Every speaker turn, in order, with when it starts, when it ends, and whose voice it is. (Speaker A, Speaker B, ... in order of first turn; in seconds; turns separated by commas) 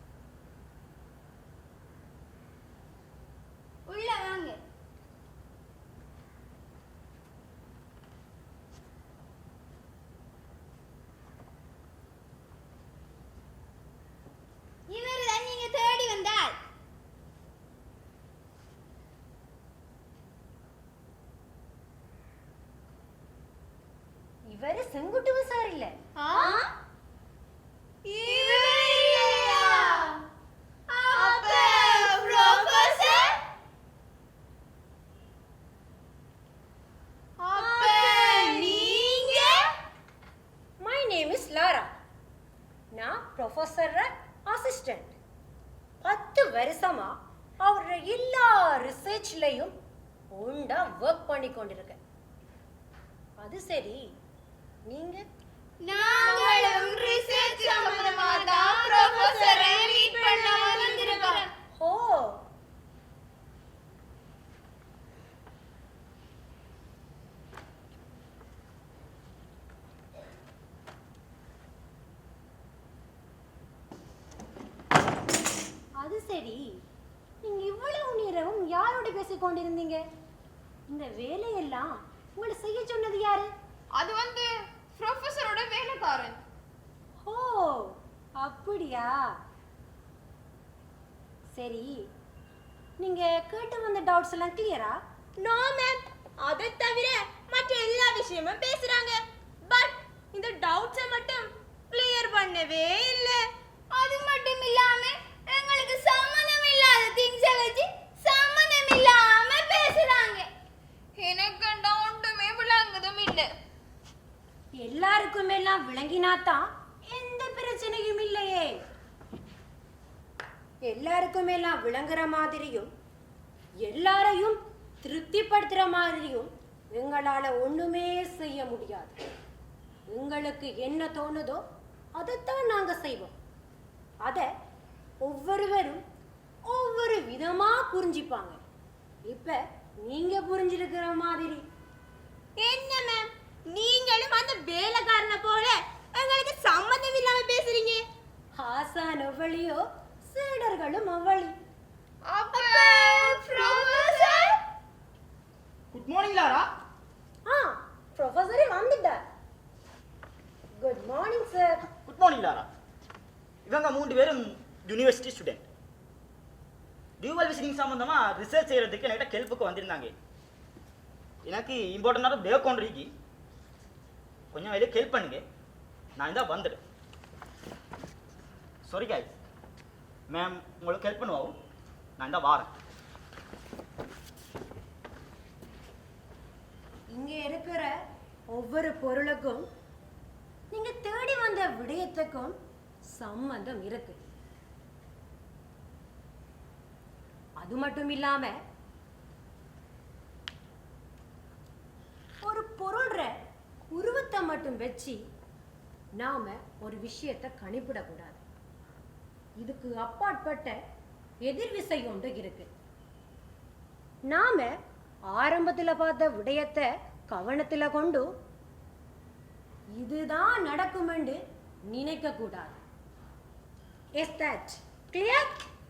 Speaker A: 3.9-4.6, Speaker A: 14.9-16.6, Speaker B: 24.5-26.5, Speaker C: 26.2-26.5, Speaker A: 28.1-30.1, Speaker C: 28.2-30.1, Speaker A: 30.9-33.3, Speaker C: 31.1-33.2, Speaker C: 37.4-39.0, Speaker A: 37.5-39.5, Speaker B: 40.8-41.9, Speaker B: 42.9-45.1, Speaker B: 46.0-49.7, Speaker B: 50.3-52.0, Speaker B: 53.4-54.0, Speaker B: 54.9-55.2, Speaker A: 55.8-61.5, Speaker C: 55.9-61.5, Speaker D: 59.3-61.4, Speaker B: 61.7-62.4, Speaker B: 76.0-76.8, Speaker B: 77.4-80.0, Speaker B: 80.9-83.5, Speaker C: 84.0-86.3, Speaker B: 87.2-89.1, Speaker B: 91.5-91.9, Speaker B: 93.0-94.9, Speaker D: 95.4-103.4, Speaker A: 103.9-110.5, Speaker C: 111.2-113.5, Speaker B: 114.8-118.7, Speaker B: 120.8-122.9, Speaker B: 123.8-129.2, Speaker B: 130.1-131.6, Speaker B: 132.2-133.3, Speaker B: 135.2-136.0, Speaker B: 136.7-138.6, Speaker B: 139.3-141.6, Speaker A: 142.6-143.2, Speaker D: 143.7-148.0, Speaker B: 148.6-151.5, Speaker C: 152.3-154.5, Speaker A: 152.5-154.5, Speaker E: 155.9-156.7, Speaker B: 157.5-159.2, Speaker B: 160.8-161.8, Speaker E: 161.9-162.7, Speaker E: 163.7-165.6, Speaker E: 167.2-170.1, Speaker E: 171.4-173.1, Speaker E: 174.5-175.4, Speaker E: 176.2-176.8, Speaker E: 178.8-179.3, Speaker E: 180.3-181.6, Speaker E: 182.2-182.7, Speaker B: 187.1-187.9, Speaker B: 188.5-189.7, Speaker B: 190.7-192.6, Speaker B: 193.2-194.2, Speaker B: 197.6-198.5, Speaker B: 202.4-203.3, Speaker B: 203.9-205.2, Speaker B: 206.2-208.4, Speaker B: 209.6-210.8, Speaker B: 211.4-212.7, Speaker B: 214.3-214.7, Speaker B: 215.3-218.3, Speaker B: 220.0-221.4, Speaker B: 221.9-222.8, Speaker B: 224.2-225.6